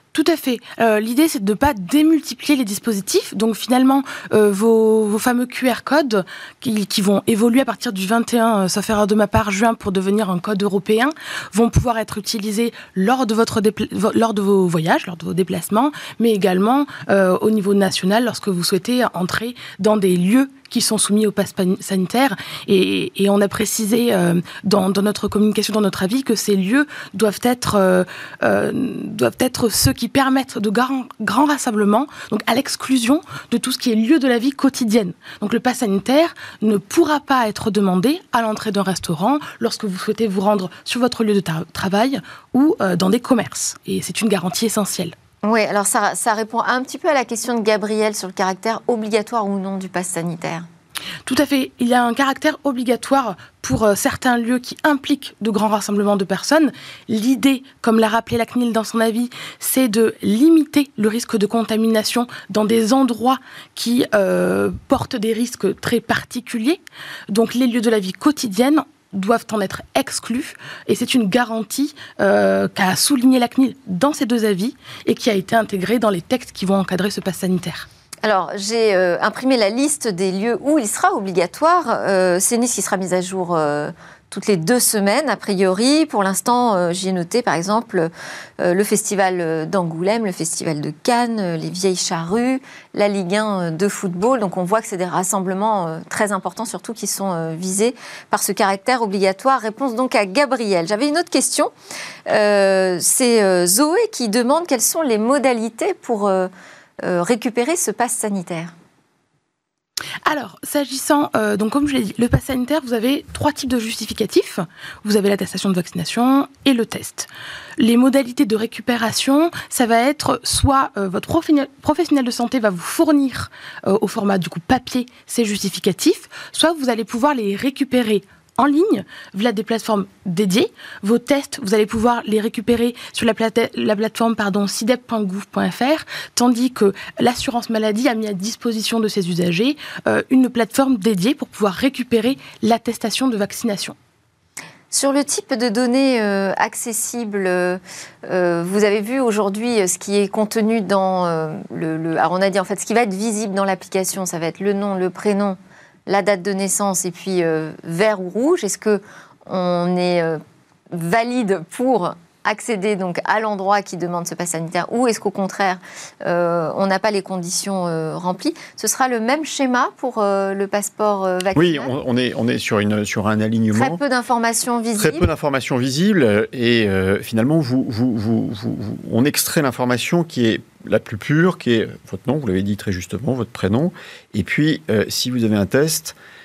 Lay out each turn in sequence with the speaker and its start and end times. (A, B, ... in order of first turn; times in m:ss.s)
0:00.1-0:45.1 A
0:45.4-0:50.6 B
0:51.3-1:17.9 A
1:18.2-1:41.7 B
1:42.3-1:46.5 B
1:47.0-1:48.7 B
1:50.2-2:24.0 A
2:24.9-2:40.4 B
2:40.9-2:51.9 B
2:51.6-2:54.0 C
2:53.7-2:55.3 B
2:55.0-3:06.1 C